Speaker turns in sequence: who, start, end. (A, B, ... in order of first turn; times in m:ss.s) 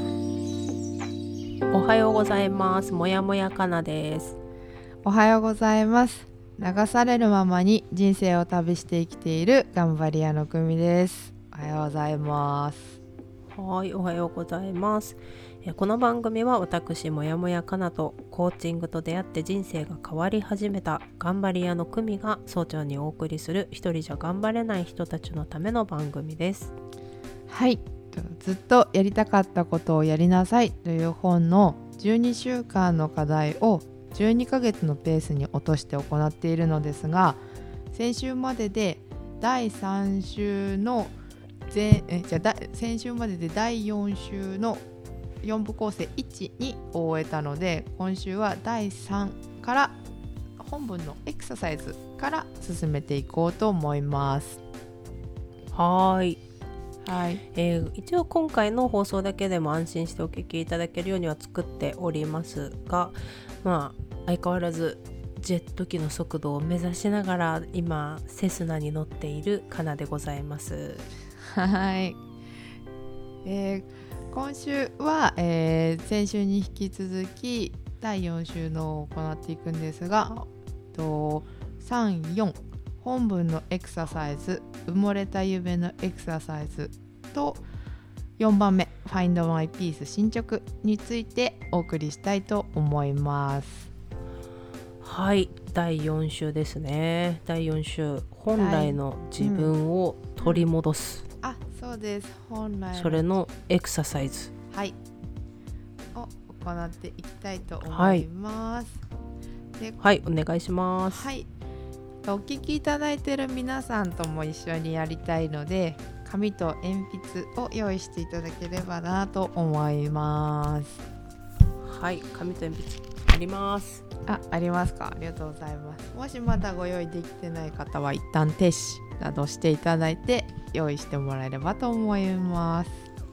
0:01.7-0:04.4 A
0:05.0-0:13.0 B
0:13.5-0:26.7 A
0:27.5-0:37.4 B
0:37.9-0:41.1 B
0:41.7-0:44.8 B
0:45.4-0:50.0 B
0:50.6-0:54.6 B
0:55.7-0:56.4 A
0:57.0-0:57.4 B
0:57.5-1:11.1 A
1:11.5-1:12.2 B
1:13.4-1:27.6 B
1:28.4-1:33.9 B
1:35.0-1:41.2 A
1:38.6-1:39.7 B
1:40.4-1:40.7 B
1:41.4-1:43.2 B
1:42.9-1:44.5 A
1:44.7-1:45.0 B
1:46.2-1:49.0 B
1:47.9-1:48.3 A
1:50.0-1:51.3 A
1:51.1-1:51.5 B
1:52.2-2:01.0 B
2:01.8-2:04.0 A
2:04.2-2:13.0 B